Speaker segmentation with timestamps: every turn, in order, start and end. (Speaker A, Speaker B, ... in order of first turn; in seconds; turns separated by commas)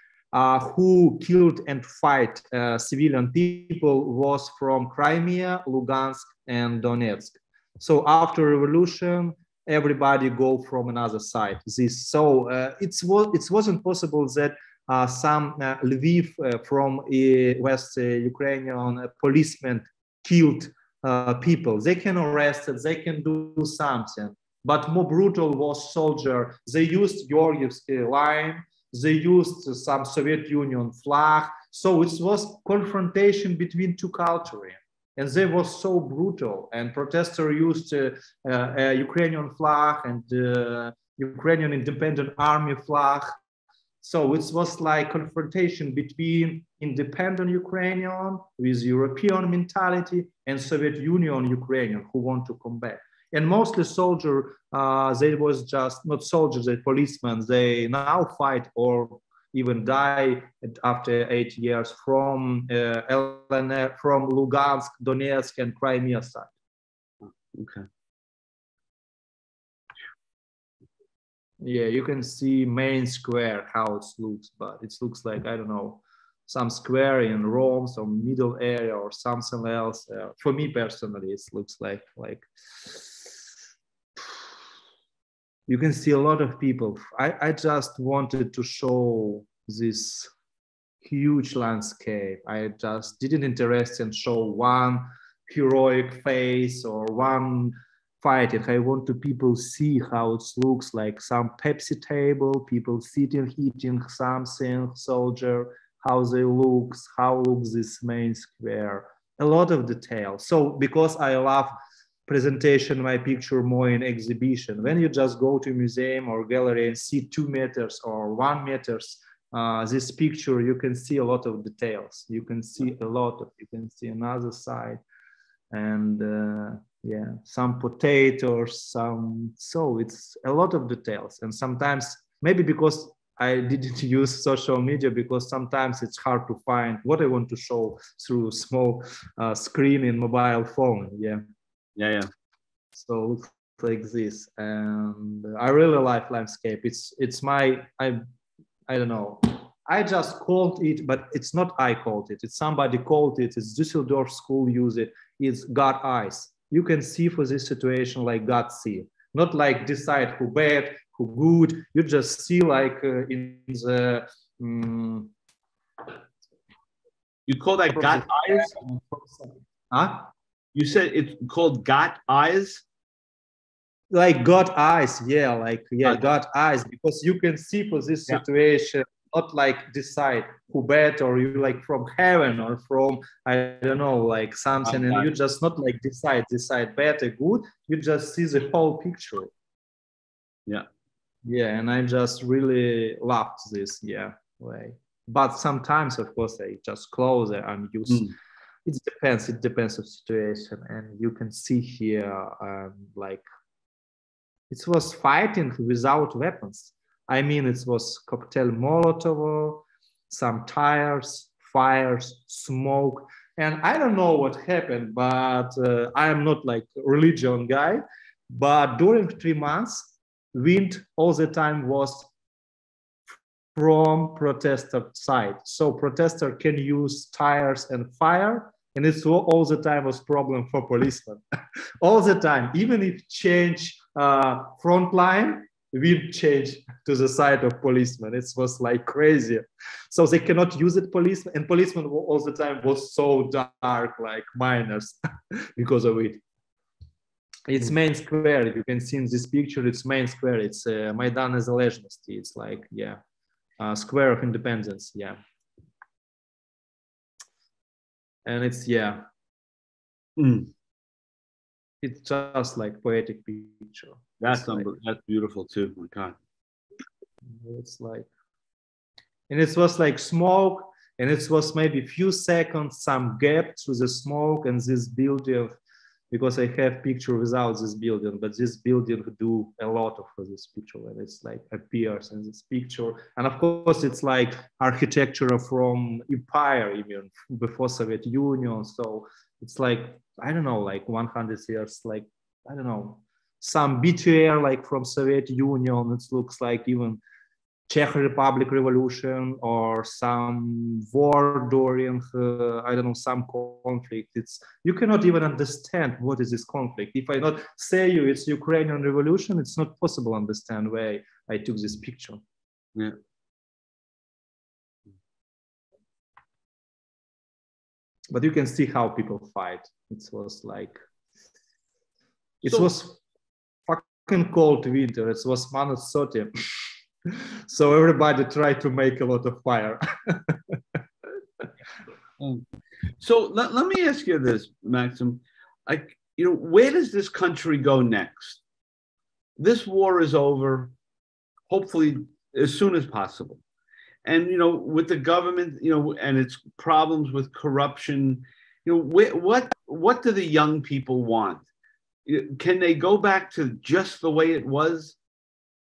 Speaker A: 0.3-43.3, Speaker A: 44.0-66.5, Speaker B: 67.4-67.9, Speaker A: 71.6-83.3, Speaker A: 85.7-90.3, Speaker A: 91.0-111.7, Speaker A: 112.3-125.0, Speaker A: 125.7-141.4, Speaker B: 142.0-142.3, Speaker A: 142.9-148.2, Speaker A: 148.9-165.3, Speaker B: 167.5-168.7, Speaker A: 167.9-170.3, Speaker B: 170.7-172.8, Speaker A: 174.1-189.5, Speaker B: 184.8-185.3, Speaker A: 191.4-198.3, Speaker A: 198.8-203.4, Speaker A: 204.7-222.3, Speaker A: 223.7-231.4, Speaker A: 232.0-246.4, Speaker A: 247.7-253.2, Speaker A: 253.8-255.4, Speaker A: 258.4-259.2, Speaker B: 260.4-260.7, Speaker A: 262.0-264.9, Speaker B: 264.4-266.4, Speaker A: 267.5-268.3, Speaker A: 269.5-275.7, Speaker A: 276.3-297.2, Speaker A: 297.9-312.4, Speaker A: 318.3-321.0, Speaker A: 322.6-323.2, Speaker A: 323.9-326.5, Speaker A: 327.2-330.8, Speaker B: 333.2-338.6, Speaker B: 339.6-340.9, Speaker B: 341.7-343.6, Speaker B: 344.2-351.6, Speaker B: 352.2-355.1